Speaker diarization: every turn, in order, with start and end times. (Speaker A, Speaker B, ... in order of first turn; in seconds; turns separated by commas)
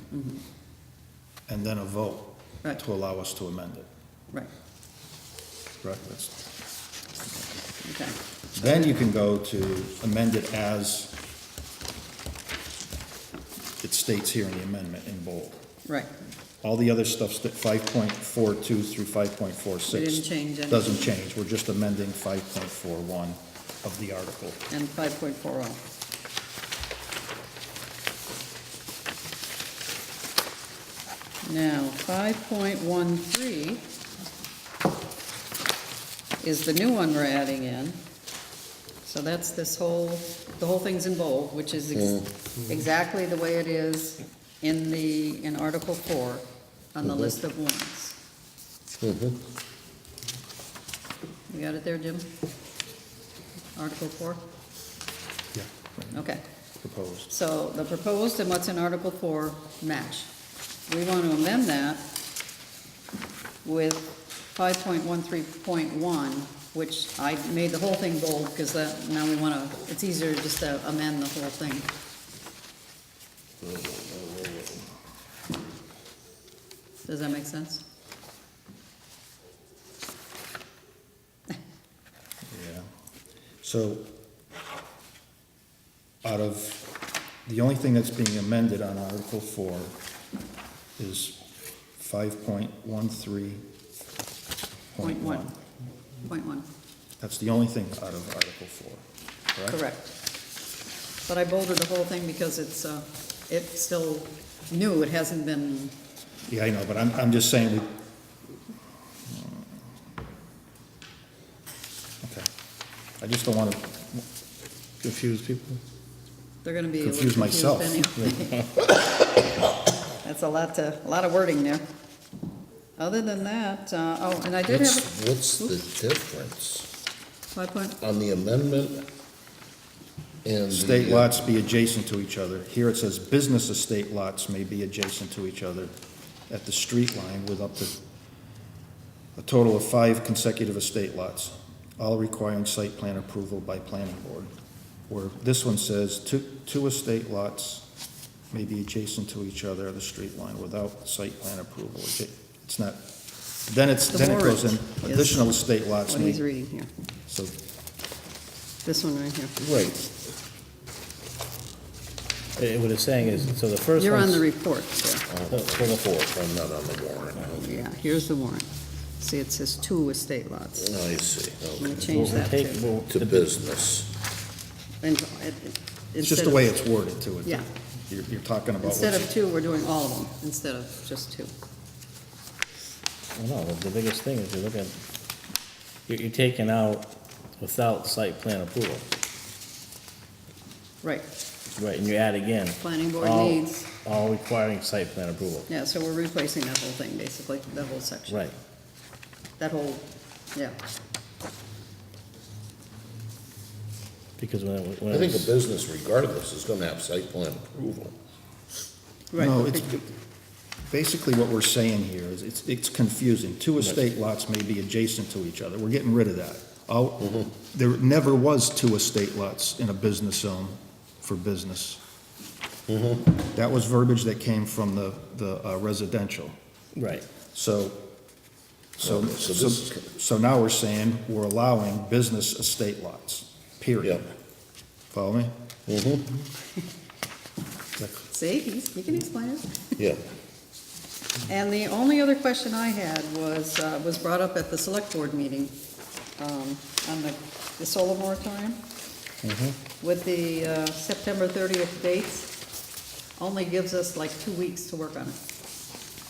Speaker A: 0.1-0.4, Speaker B: 1.5-3.9, Speaker B: 5.8-6.4, Speaker A: 7.8-8.8, Speaker B: 8.6-11.2, Speaker B: 13.8-15.6, Speaker A: 15.9-16.1, Speaker B: 16.6-24.6, Speaker A: 19.9-21.1, Speaker A: 24.7-25.8, Speaker A: 31.4-33.9, Speaker A: 36.4-38.0, Speaker A: 39.0-48.2, Speaker C: 42.0-42.2, Speaker C: 47.0-47.3, Speaker C: 49.0-49.4, Speaker A: 51.5-52.3, Speaker A: 53.8-54.4, Speaker B: 55.5-56.2, Speaker A: 56.1-56.4, Speaker B: 56.8-57.3, Speaker A: 57.3-60.3, Speaker A: 60.9-62.0, Speaker A: 63.6-71.9, Speaker D: 73.7-74.7, Speaker A: 77.1-77.8, Speaker B: 82.5-82.9, Speaker B: 83.6-84.1, Speaker B: 86.2-86.9, Speaker B: 87.5-90.0, Speaker B: 91.0-91.4, Speaker B: 92.0-93.6, Speaker B: 95.0-95.5, Speaker A: 95.0-95.5, Speaker A: 96.3-96.7, Speaker B: 97.2-99.0, Speaker A: 99.7-100.1, Speaker A: 101.3-105.9, Speaker B: 106.5-107.9, Speaker B: 109.3-109.6, Speaker B: 112.2-112.5, Speaker B: 113.2-114.2, Speaker D: 115.0-115.8, Speaker A: 116.6-118.8, Speaker B: 117.0-118.0, Speaker A: 120.2-121.8, Speaker A: 123.0-125.8, Speaker C: 124.7-126.9, Speaker A: 127.5-128.0, Speaker C: 128.0-129.0, Speaker C: 130.4-131.3, Speaker B: 130.7-135.9, Speaker B: 136.5-138.0, Speaker B: 139.4-144.5, Speaker B: 145.1-147.9, Speaker B: 148.5-153.0, Speaker B: 153.7-156.4, Speaker A: 154.1-155.5, Speaker A: 156.1-156.9, Speaker B: 157.3-157.6, Speaker A: 158.8-159.6, Speaker C: 159.6-160.1, Speaker D: 162.6-164.4, Speaker A: 164.0-165.3, Speaker C: 165.3-167.9, Speaker D: 165.5-166.1, Speaker A: 167.6-168.7, Speaker A: 169.2-170.9, Speaker C: 170.8-172.0, Speaker A: 171.8-172.8, Speaker D: 172.0-173.5, Speaker C: 173.0-174.1, Speaker A: 175.0-176.8, Speaker B: 176.2-179.3, Speaker A: 178.8-181.5, Speaker D: 183.3-185.0, Speaker D: 186.1-189.1, Speaker D: 191.8-195.7, Speaker A: 192.8-193.9, Speaker A: 195.7-198.5, Speaker D: 198.3-198.6, Speaker A: 199.6-200.8, Speaker D: 204.4-205.5, Speaker C: 205.1-208.2, Speaker A: 209.3-209.9, Speaker B: 209.3-210.1, Speaker B: 210.9-222.0, Speaker C: 222.9-223.3, Speaker B: 223.4-226.6, Speaker D: 227.0-227.3, Speaker B: 227.5-228.0, Speaker B: 229.0-234.3, Speaker C: 229.0-230.1, Speaker B: 235.1-235.5, Speaker C: 235.9-236.4, Speaker B: 238.0-238.3, Speaker A: 238.3-240.0, Speaker A: 241.5-245.8, Speaker A: 246.4-248.8, Speaker A: 250.0-252.5, Speaker A: 253.4-255.4